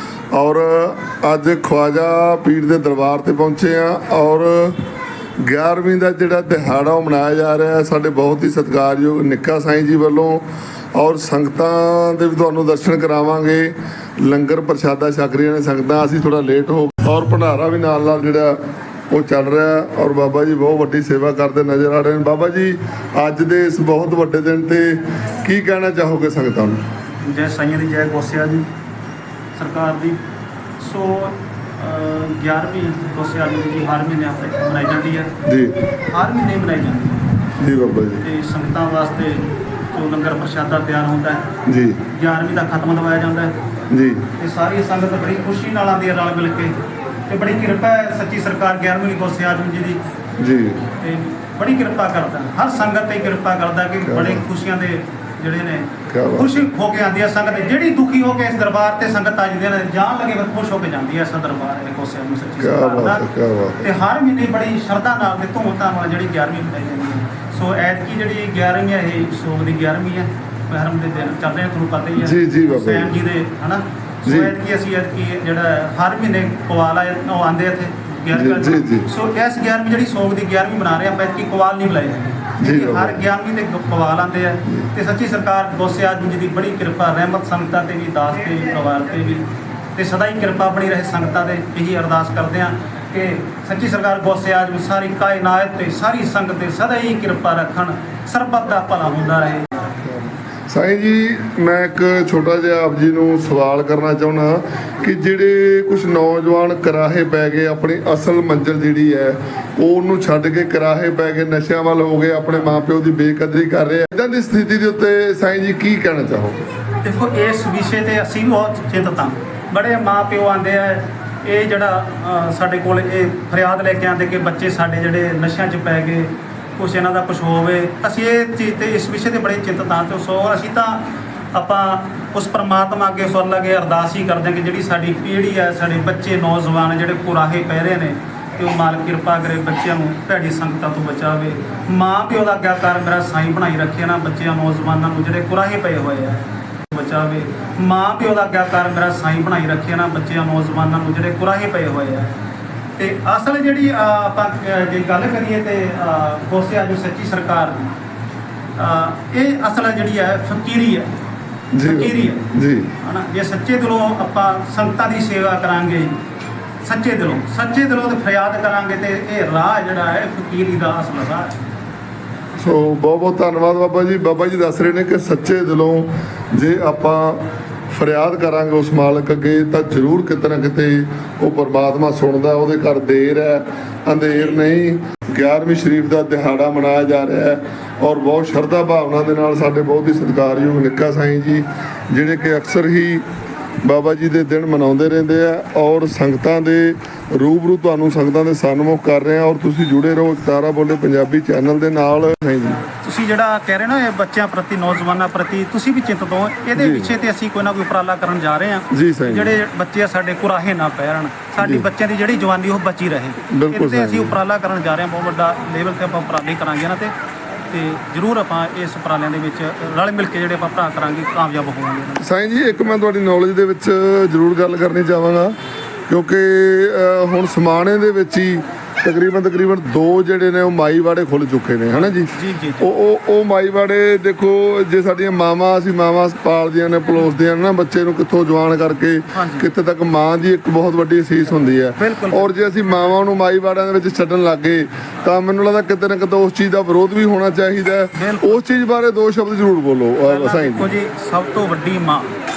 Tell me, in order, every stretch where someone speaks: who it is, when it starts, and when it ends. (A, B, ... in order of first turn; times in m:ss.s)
0:00.3-0:04.8 A
0:05.4-0:10.4 A
0:10.9-0:18.6 A
0:19.1-0:26.8 A
0:27.2-0:28.7 B
0:29.5-0:30.2 B
0:30.8-0:35.3 B
0:35.4-0:35.8 A
0:36.1-0:37.2 B
0:37.6-0:38.2 A
0:38.2-0:41.5 B
0:41.6-0:42.0 A
0:42.1-0:43.5 B
0:43.9-0:44.3 A
0:44.4-0:46.7 B
0:47.3-0:50.0 B
0:50.4-0:50.8 A
0:51.0-1:03.3 B
0:54.0-0:54.4 A
0:56.1-0:56.6 A
1:02.6-1:03.9 A
1:03.8-1:39.8 B
1:12.2-1:13.1 A
1:14.2-1:14.5 A
1:18.3-1:19.1 A
1:22.6-1:23.2 A
1:39.8-1:56.6 A
1:57.0-2:32.3 B
2:33.0-2:37.9 B
2:38.8-2:41.1 B
2:41.7-2:42.9 A
2:41.8-2:42.4 B
2:43.0-2:46.2 B
2:46.8-2:51.6 B
2:52.6-3:13.2 A
3:13.8-3:22.8 A
3:23.0-3:37.1 B
3:26.8-3:27.1 A
3:28.9-3:29.6 A
3:31.6-3:31.9 A
3:33.5-3:34.4 A
3:37.7-3:42.6 B
3:42.2-3:45.5 A
3:46.1-4:10.9 A
3:51.9-3:52.9 B
3:59.3-3:59.7 B
4:02.0-4:02.5 B
4:08.2-4:08.6 B
4:10.2-4:12.3 B